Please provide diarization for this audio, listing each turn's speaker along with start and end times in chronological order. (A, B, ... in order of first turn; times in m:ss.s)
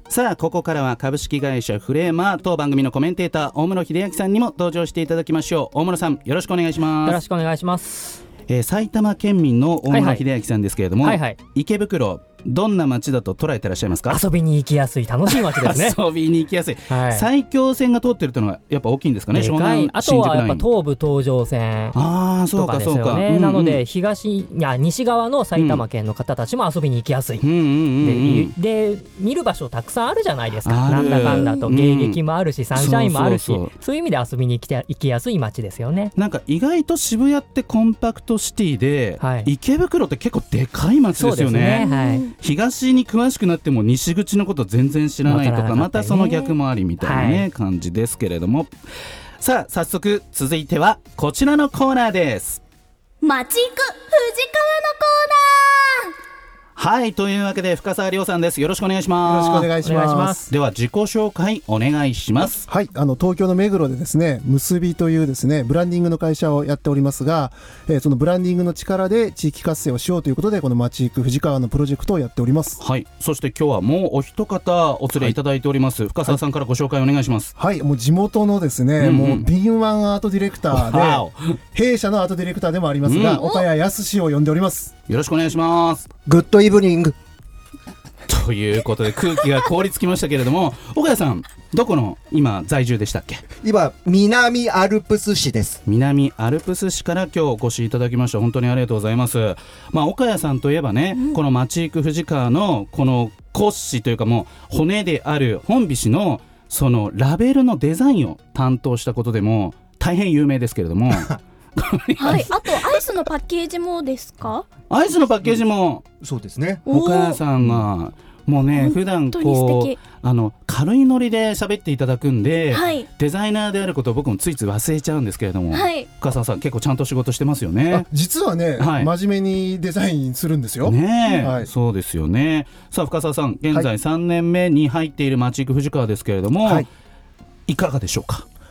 0:00.1-0:07.2 A
0:07.0-0:08.2 B
0:08.5-0:14.2 A
0:09.9-0:10.2 B
0:11.0-0:11.4 B
0:14.1-0:16.0 B
0:15.3-0:20.6 A
0:16.9-0:17.3 B
0:19.3-0:22.0 B
0:21.9-0:23.8 A
0:22.5-0:27.4 B
0:25.5-0:25.8 A
0:27.4-0:28.5 A
0:28.0-0:36.1 B
0:30.6-0:32.2 A
0:31.2-0:31.6 C
0:32.7-0:33.7 A
0:36.2-0:48.7 A
0:39.2-0:39.5 B
0:41.2-0:42.2 B
0:41.8-0:42.3 C
0:45.3-0:47.4 B
0:49.4-0:52.6 A
0:53.2-0:56.1 C
0:56.8-0:59.7 A
0:59.2-1:00.5 D
0:59.8-1:00.4 B
1:00.5-1:02.6 A
1:02.7-1:12.8 D
1:12.8-1:17.5 A
1:17.6-1:24.9 D
1:19.0-1:19.5 A
1:20.7-1:21.6 A
1:23.0-1:23.5 A
1:25.1-1:26.1 A
1:26.2-1:27.1 E
1:28.3-1:33.4 A
1:33.6-1:35.8 E
1:35.8-1:53.1 A
1:52.2-1:54.7 C
1:54.9-1:56.0 A
1:56.2-1:56.8 E
1:56.8-1:57.4 C
1:56.9-2:08.1 A
1:58.7-2:00.0 C
2:02.7-2:03.1 C
2:05.7-2:06.1 C
2:07.9-2:11.7 D
2:08.8-2:09.1 A
2:10.8-2:16.9 A
2:11.3-2:11.5 C
2:16.6-2:16.9 D
2:17.7-2:18.4 A